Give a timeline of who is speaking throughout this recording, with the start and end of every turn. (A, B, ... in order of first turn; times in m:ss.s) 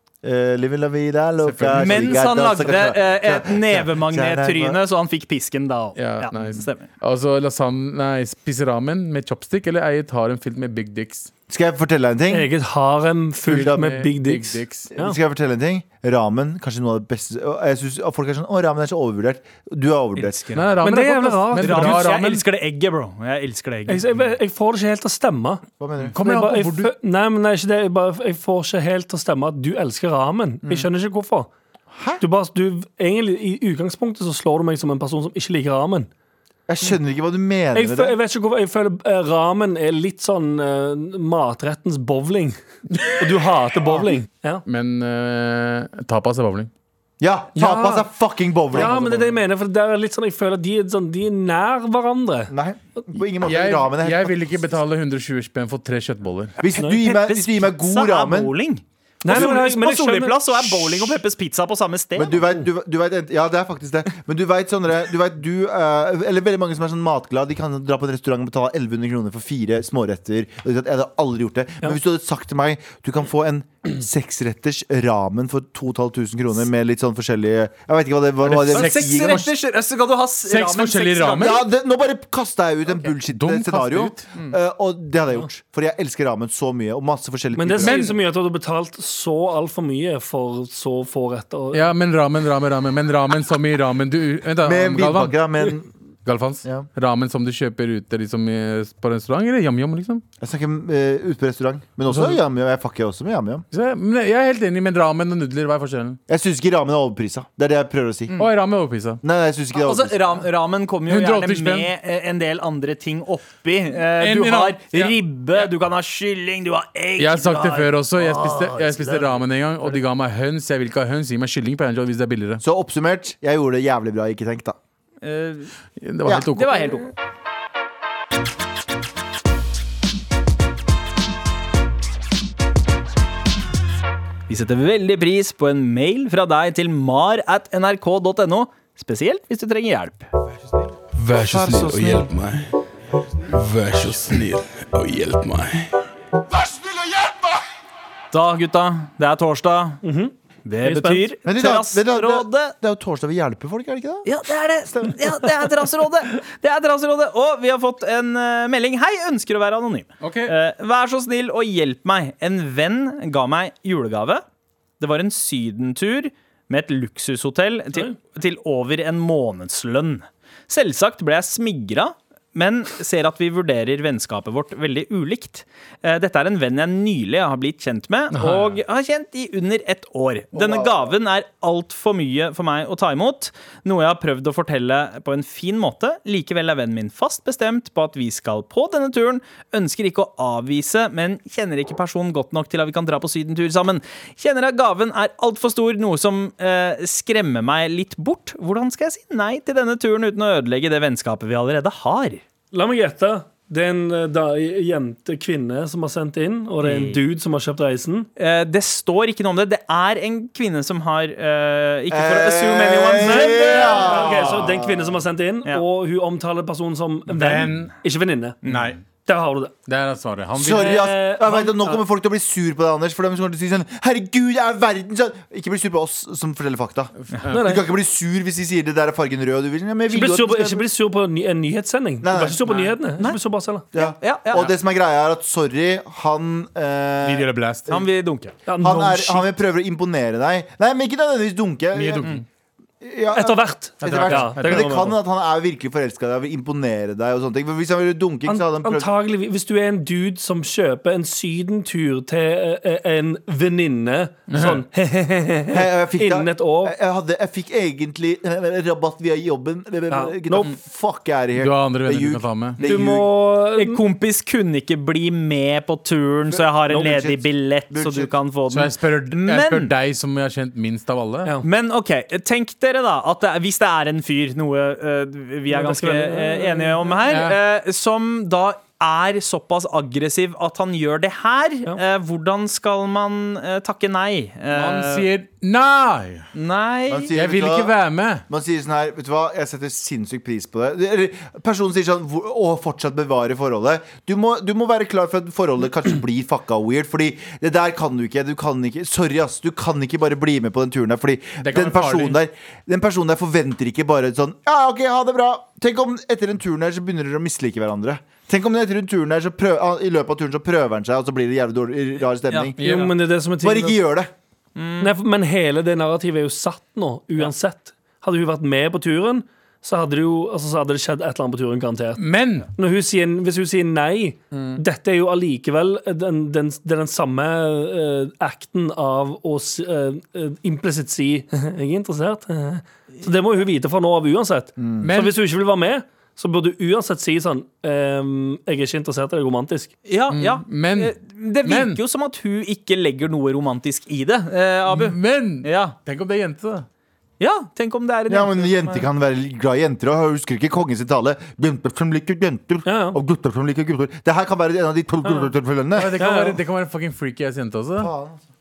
0:00.2-0:04.8 A
0:01.4-0:02.3 B
0:01.8-0:06.8 C
0:06.0-0:11.3 B
0:11.5-0:12.5 A
0:12.3-0:15.2 D
0:13.5-0:13.9 A
0:13.5-0:14.9 B
0:14.9-0:20.6 A
0:20.2-0:20.7 C
0:20.5-0:22.4 B
0:20.8-0:22.1 D
0:21.6-0:24.0 C
0:23.9-0:25.6 D
0:25.8-0:26.2 A
0:26.0-0:26.9 B
0:26.2-0:31.5 D
0:31.9-0:32.2 A
0:32.2-0:36.1 D
0:36.7-0:38.2 A
0:37.7-0:44.6 D
0:44.7-0:46.7 B
0:47.2-0:49.4 A
0:47.6-0:48.1 D
0:48.7-0:52.5 D
0:52.5-0:54.4 A
0:53.4-0:56.6 B
0:56.6-0:58.5 A
0:56.8-1:02.4 C
0:59.2-1:01.2 D
1:02.2-1:19.5 A
1:18.4-1:19.5 B
1:18.7-1:21.6 C
1:20.5-1:21.6 B
1:21.4-1:28.0 A
1:23.1-1:24.3 B
1:27.6-1:31.9 D
1:27.8-1:28.2 B
1:31.7-1:35.7 B
1:34.6-1:35.9 A
1:36.3-1:40.2 B
1:40.4-1:43.6 A
1:42.1-1:42.4 B
1:43.7-1:46.2 B
1:46.3-1:48.4 A
1:48.4-1:49.2 B
1:49.2-1:50.4 A
1:49.7-1:58.0 C
1:51.1-1:51.9 B
1:54.2-1:55.2 B
1:57.2-2:02.6 B
1:58.8-1:59.2 D
2:02.6-2:04.8 A
2:05.2-2:05.7 C
2:06.0-2:07.0 B
2:06.6-2:07.1 C
2:14.5-2:20.3 C
2:21.2-2:22.7 E
2:21.4-2:22.3 A
2:23.4-2:25.9 E
2:26.5-2:27.4 A
2:28.3-2:30.0 C
2:30.0-2:31.3 D
2:30.6-2:32.7 C
2:31.4-2:34.3 A
2:34.3-2:44.4 C
2:34.9-2:35.3 A
2:40.2-2:40.5 B
2:45.0-3:22.4 C
2:58.3-2:58.8 B
3:00.5-3:01.2 A
3:22.7-3:28.3 D
3:26.8-3:27.2 C
3:28.4-3:34.5 C
3:32.1-3:35.2 A
3:33.2-3:38.6 D
3:37.3-3:37.9 B
3:38.6-3:38.9 C
3:38.6-3:39.0 B
3:39.2-3:39.7 D
3:39.9-3:41.1 B
3:40.6-3:50.9 A
3:40.8-3:42.0 D
3:47.2-3:47.7 B
3:47.5-3:47.8 D
3:50.1-3:53.9 D
3:52.2-3:52.6 A
3:52.7-3:53.4 C
3:53.9-3:58.1 A
3:54.0-3:54.7 C
3:57.2-3:57.9 B
3:57.9-3:58.6 C
3:58.7-3:59.5 D
3:58.8-4:02.4 A
4:01.9-4:02.4 B
4:03.0-4:09.1 A
4:03.3-4:05.2 D
4:04.0-4:05.0 B
4:08.5-4:17.0 D
4:14.5-4:14.8 B
4:15.7-4:23.3 A
4:20.1-4:20.7 D
4:21.6-4:22.8 B
4:22.8-4:24.0 D
4:23.8-4:29.9 C
4:26.5-4:28.3 A
4:26.9-4:27.2 D
4:28.7-4:31.5 B
4:31.6-4:45.3 C
4:35.7-4:37.2 D
4:37.3-4:37.6 B
4:44.7-4:46.5 B
4:46.5-4:47.3 C
4:47.1-4:47.9 A
4:47.3-4:48.4 B
4:48.5-5:12.8 A
5:01.6-5:02.4 B
5:12.8-5:13.1 B
5:12.8-5:14.0 D
5:13.6-5:14.3 A
5:14.8-5:15.1 C
5:15.0-5:22.2 D
5:22.2-5:22.7 B
5:22.8-5:39.9 D
5:34.8-5:35.1 A
5:35.0-5:35.4 B
5:40.1-5:46.0 C
5:40.3-5:42.0 B
5:44.9-5:46.9 B
5:47.4-5:49.0 C
5:48.3-5:56.2 A
5:52.8-5:53.2 D
5:55.2-5:55.5 D
5:56.0-5:58.1 B
5:56.2-5:56.6 D
5:58.0-5:58.4 A